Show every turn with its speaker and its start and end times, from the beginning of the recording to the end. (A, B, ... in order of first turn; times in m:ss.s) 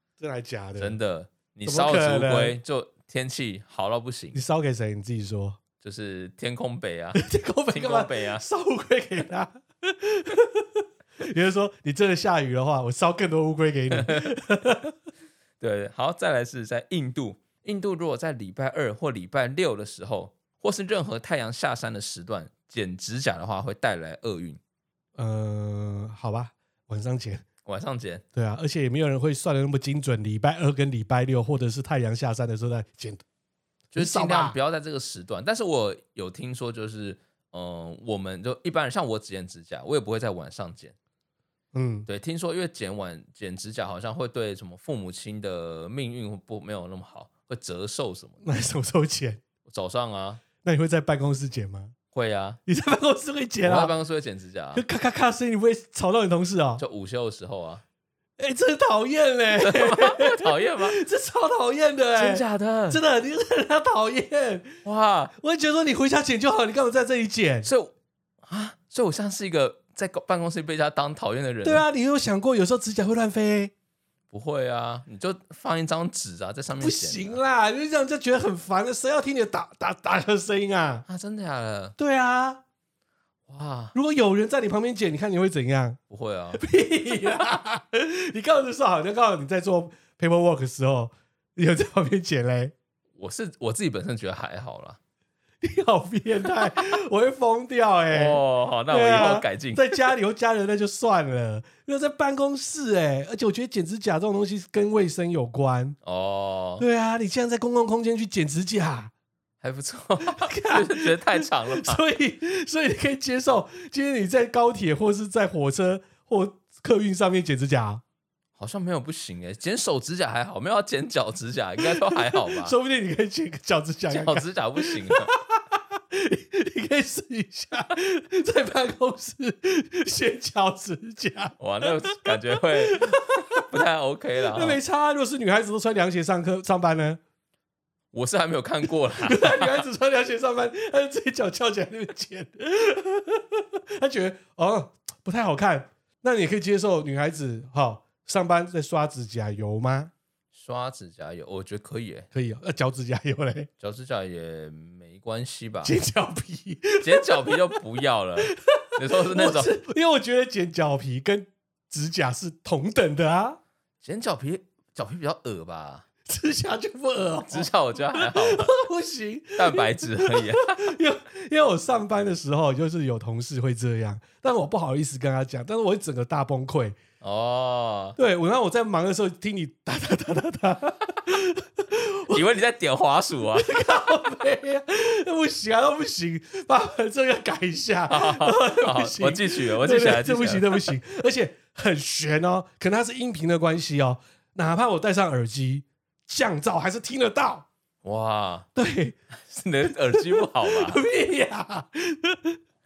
0:00.2-0:01.0 A
0:00.8-0:04.4 B
0:01.7-0:02.6 A
0:04.3-0:05.6 A
0:05.8-0:08.5 B
0:07.2-0:14.9 A
0:13.9-0:14.3 B
0:15.6-0:24.6 B
0:25.2-0:27.5 A
0:27.6-0:28.2 B
0:28.4-0:33.2 A
0:33.9-0:34.6 A
0:34.0-0:40.9 B
0:41.7-0:42.1 A
0:42.1-0:48.4 B
0:48.4-0:49.4 A
0:49.7-0:50.4 B
0:50.6-0:51.9 A
0:52.1-0:52.6 B
0:52.7-0:53.9 A
0:53.6-0:54.8 B
0:54.7-0:56.8 A
0:56.8-0:57.8 B
0:58.4-1:04.8 A
0:59.6-1:01.0 B
1:02.1-1:03.0 B
1:04.8-1:05.3 B
1:05.4-1:07.7 A
1:07.6-1:07.9 B
1:08.4-1:11.8 B
1:11.6-1:13.7 A
1:14.3-1:17.4 B
1:16.8-1:21.0 A
1:21.1-1:22.0 B
1:22.0-1:22.6 A
1:23.5-1:23.9 B
1:23.9-1:26.0 A
1:26.1-1:26.6 B
1:26.6-1:32.7 A
1:33.2-1:35.0 B
1:35.6-1:46.0 A
1:38.1-1:40.1 B
1:46.0-1:46.8 B
1:46.8-1:49.1 A
1:49.6-1:52.0 B
1:50.4-1:58.0 A
1:58.6-2:02.8 B
2:01.8-2:13.6 A
2:04.1-2:05.3 B
2:11.6-2:14.8 B
2:14.6-2:17.2 A
2:18.1-2:19.8 B
2:19.2-2:30.1 A
2:30.5-2:32.3 B
2:32.3-2:33.7 A
2:33.8-2:35.9 B
2:35.8-2:37.8 A
2:37.0-2:39.7 B
2:38.5-2:43.6 A
2:44.0-2:46.1 B
2:46.3-2:57.0 A
2:47.5-2:48.7 B
2:49.6-2:50.9 B
2:57.2-2:58.2 B
2:58.2-3:02.4 A
3:02.3-3:03.7 B
3:03.6-3:17.7 A
3:08.1-3:10.9 B
3:18.0-3:18.7 B
3:18.8-3:19.2 A
3:19.3-3:21.0 B
3:19.9-3:22.6 A